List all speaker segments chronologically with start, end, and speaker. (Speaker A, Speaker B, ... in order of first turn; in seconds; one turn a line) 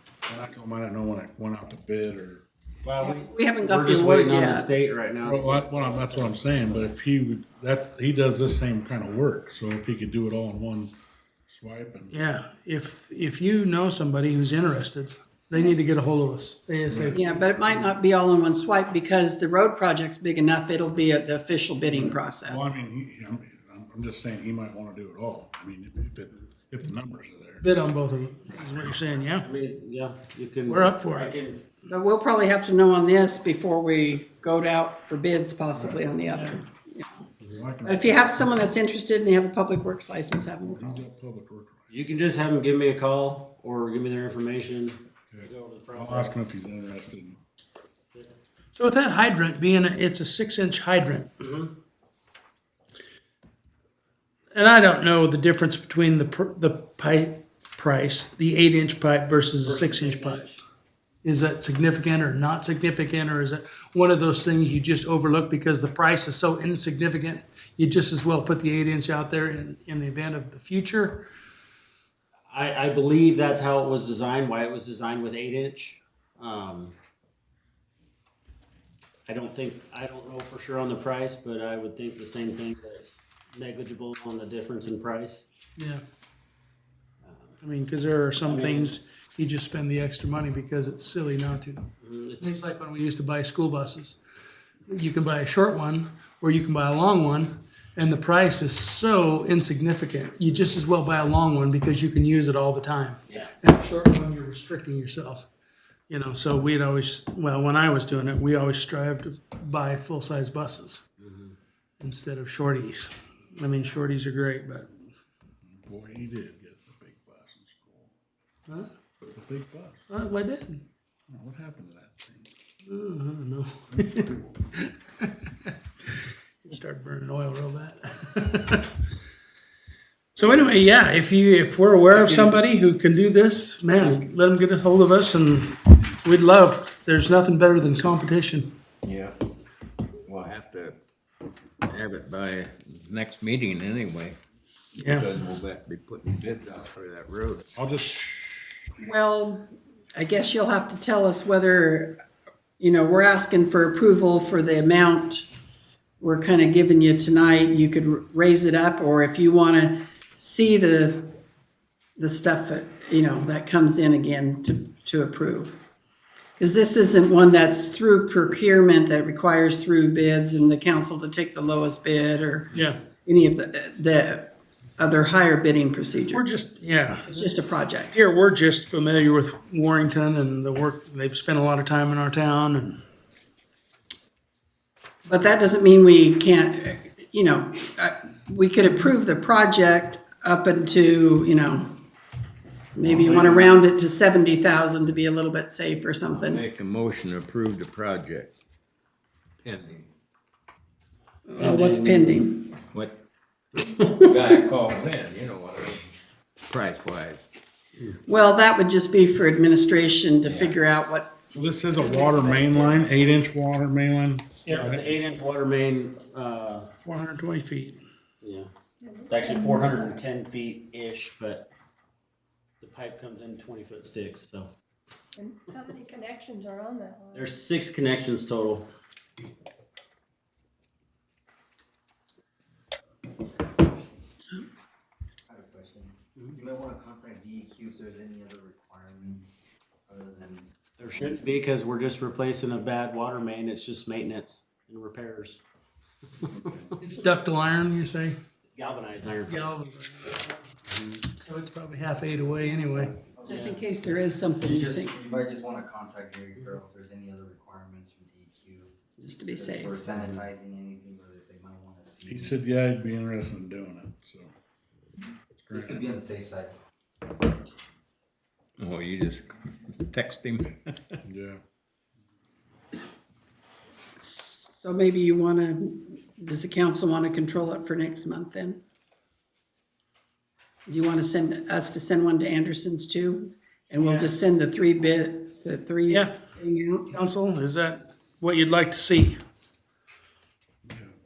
Speaker A: 0.3-2.4
Speaker B: 2.8-6.9
Speaker C: 3.0-4.7
Speaker A: 5.2-10.9
Speaker A: 11.5-12.1
Speaker D: 12.1-17.7
Speaker A: 16.9-17.2
Speaker C: 17.1-22.7
Speaker A: 21.9-27.6
Speaker D: 27.6-29.5
Speaker B: 29.4-31.6
Speaker D: 30.7-31.3
Speaker C: 31.9-37.0
Speaker A: 37.4-38.6
Speaker C: 37.9-41.1
Speaker A: 40.6-41.9
Speaker B: 41.9-46.4
Speaker A: 45.3-47.4
Speaker D: 48.8-51.3
Speaker B: 51.4-51.7
Speaker D: 54.5-60.6
Speaker B: 59.6-60.6
Speaker D: 61.2-71.3
Speaker B: 72.5-76.9
Speaker B: 79.3-85.5
Speaker D: 85.8-86.0
Speaker B: 87.2-87.6
Speaker D: 87.6-94.2
Speaker B: 88.4-89.1
Speaker B: 92.0-92.5
Speaker D: 94.9-105.5
Speaker D: 106.1-111.0
Speaker B: 111.2-111.5
Speaker D: 112.0-114.9
Speaker A: 115.7-118.1
Speaker A: 119.3-120.1
Speaker D: 120.1-120.8
Speaker A: 121.3-122.5
Speaker D: 122.9-128.9
Speaker A: 123.9-124.4
Speaker D: 130.4-138.7
Speaker B: 132.2-132.5
Speaker E: 139.0-139.4
Speaker E: 140.3-141.0
Speaker E: 141.9-144.4
Speaker E: 145.0-147.7
Speaker D: 145.0-145.3
Speaker A: 147.8-148.7
Speaker C: 149.0-152.2
Speaker C: 152.8-155.5
Speaker C: 156.2-161.4
Speaker C: 162.2-165.8
Speaker C: 166.6-176.5
Speaker D: 172.7-173.0
Speaker D: 176.3-177.4
Speaker C: 177.3-178.2
Speaker D: 178.1-183.0
Speaker C: 185.3-192.0
Speaker C: 192.9-196.7
Speaker B: 193.4-193.7
Speaker E: 196.3-198.6
Speaker E: 199.6-200.1
Speaker C: 201.5-202.8
Speaker B: 201.6-202.4
Speaker E: 202.9-203.2
Speaker E: 203.9-207.4
Speaker C: 208.3-211.4
Speaker E: 210.4-210.8
Speaker A: 211.5-215.1
Speaker C: 211.9-213.3
Speaker B: 214.7-216.9
Speaker D: 217.0-218.0
Speaker B: 218.4-218.7
Speaker F: 219.0-219.9
Speaker B: 219.3-221.7
Speaker B: 222.8-224.7
Speaker F: 225.4-227.4
Speaker B: 227.3-228.9
Speaker G: 233.7-234.1
Speaker G: 235.5-241.4
Speaker B: 241.0-245.6
Speaker G: 246.4-247.0
Speaker D: 247.0-248.4
Speaker B: 248.6-249.7
Speaker D: 249.5-250.7
Speaker D: 251.3-253.2
Speaker G: 253.3-253.8
Speaker C: 253.4-255.1
Speaker G: 254.6-258.9
Speaker C: 259.2-260.0
Speaker G: 259.6-262.6
Speaker A: 262.3-264.5
Speaker A: 265.6-266.1
Speaker G: 265.7-266.8
Speaker E: 268.8-270.8
Speaker A: 271.2-271.6
Speaker C: 274.2-278.8
Speaker C: 280.9-287.1
Speaker D: 284.0-284.3
Speaker D: 287.1-289.4
Speaker A: 290.9-291.1